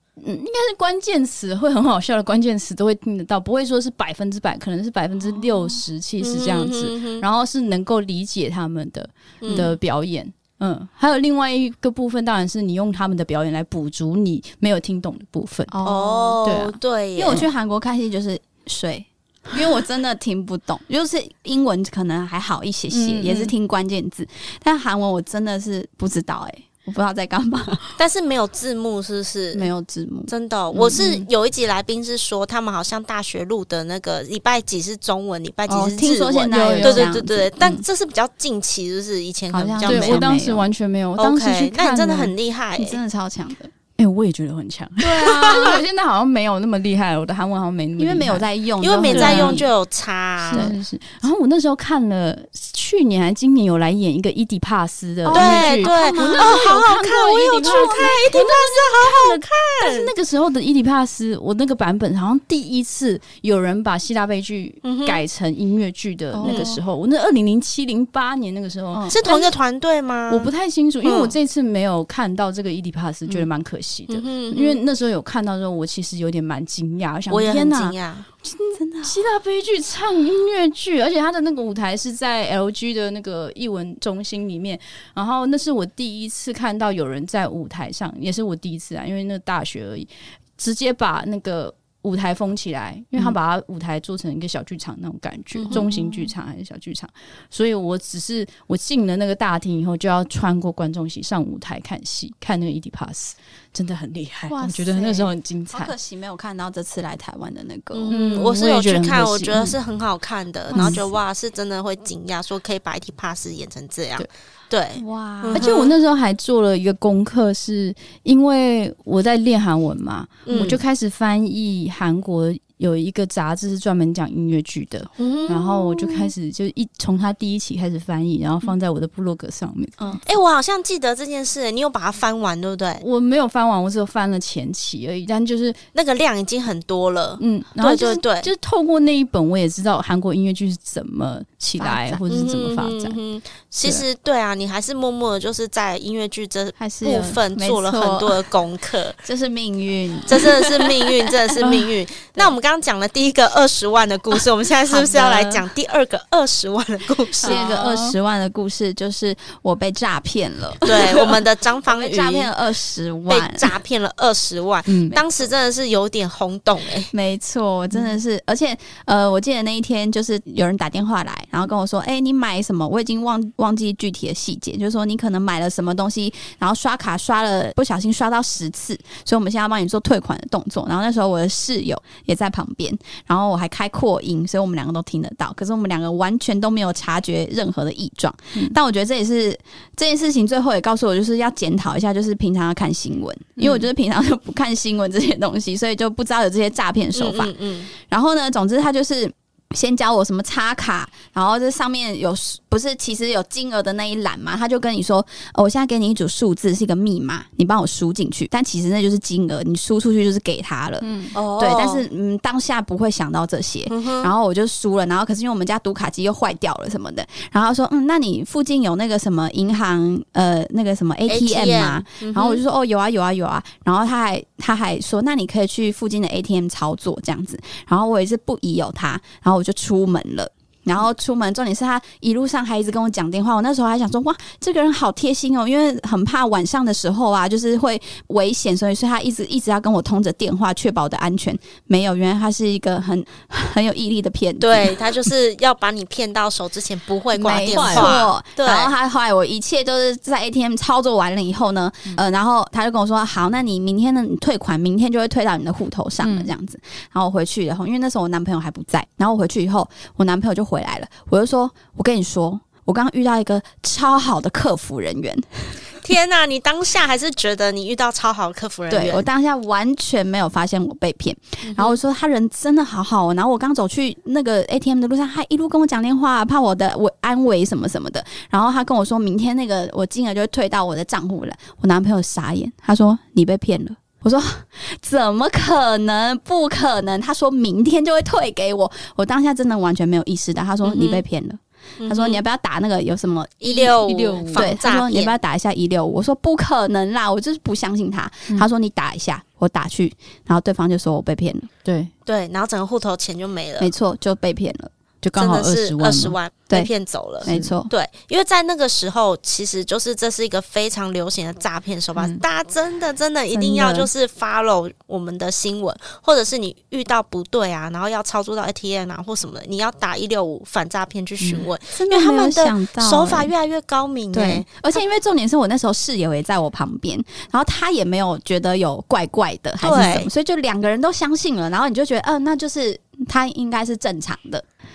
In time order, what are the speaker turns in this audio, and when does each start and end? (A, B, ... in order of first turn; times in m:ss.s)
0:00.2-0:15.8 A
0:06.2-0:07.2 B
0:09.4-0:09.7 B
0:09.5-0:09.7 C
0:15.7-0:27.8 C
0:15.8-0:17.5 B
0:16.4-0:16.8 A
0:22.9-0:23.5 A
0:28.0-0:29.7 B
0:29.5-0:31.2 C
0:30.3-0:40.2 B
0:35.7-0:37.8 C
0:36.5-0:37.2 A
0:39.5-0:40.7 C
0:39.9-0:42.3 A
0:41.2-0:43.0 B
0:42.8-0:43.7 C
0:44.0-0:48.5 A
0:45.1-0:45.8 B
0:45.2-0:45.8 C
0:48.0-0:49.7 C
0:48.8-0:50.7 B
0:49.0-0:49.7 A
0:50.5-0:50.8 C
0:50.5-1:09.4 A
0:55.2-0:56.8 C
0:55.3-1:00.1 B
0:57.6-0:58.4 C
1:04.8-1:05.2 B
1:06.3-1:06.8 C
1:06.4-1:06.7 B
1:08.9-1:09.4 C
1:09.1-1:10.5 B
1:10.3-1:45.9 A
1:11.0-1:11.3 B
1:14.1-1:14.8 B
1:17.3-1:18.3 B
1:18.8-1:19.2 C
1:35.6-1:35.8 B
1:35.7-1:36.3 C
1:44.5-1:48.1 C
1:47.9-1:55.9 B
1:48.1-1:49.7 A
1:50.7-1:51.1 C
1:50.7-1:51.0 A
1:55.0-1:55.7 C
1:55.5-2:10.2 A
2:00.5-2:00.8 B
2:00.5-2:00.8 C
2:05.2-2:05.6 B
2:05.5-2:06.2 C
2:10.0-2:10.2 C
2:10.2-2:13.0 B
2:13.0-2:15.8 A
2:15.9-2:18.5 B
2:17.4-2:23.2 A
2:21.8-2:22.2 C
2:22.3-2:29.2 B
2:26.8-2:28.5 C
2:29.2-2:32.5 C
2:30.3-2:37.7 B
2:34.9-2:35.7 C
2:37.4-2:43.8 C
2:37.4-2:38.2 A
2:40.8-2:42.5 B
2:43.3-2:47.1 B
2:44.9-2:45.2 A
2:47.1-4:05.2 C
3:13.6-3:13.8 A
3:17.2-3:17.9 B
3:31.0-3:31.4 A
3:31.3-3:32.0 B
3:33.9-3:34.3 B
3:41.3-3:42.6 B
4:04.6-4:08.9 B
4:07.4-4:25.8 C
4:07.4-4:08.2 A
4:16.2-4:16.5 A
4:26.0-4:29.2 B
4:28.9-5:01.7 C
4:31.6-4:32.0 B
4:50.8-4:51.2 B
4:52.0-4:52.4 B
4:53.6-4:55.3 B
4:54.1-4:54.7 A
5:01.8-5:02.1 A
5:02.3-5:03.9 B
5:03.8-5:04.9 C
5:05.2-5:06.4 A
5:05.4-5:24.7 B
5:07.4-5:07.9 C
5:07.4-5:07.7 A
5:13.5-5:14.1 C
5:21.9-5:23.5 C
5:24.3-5:34.6 C
5:29.8-5:30.3 B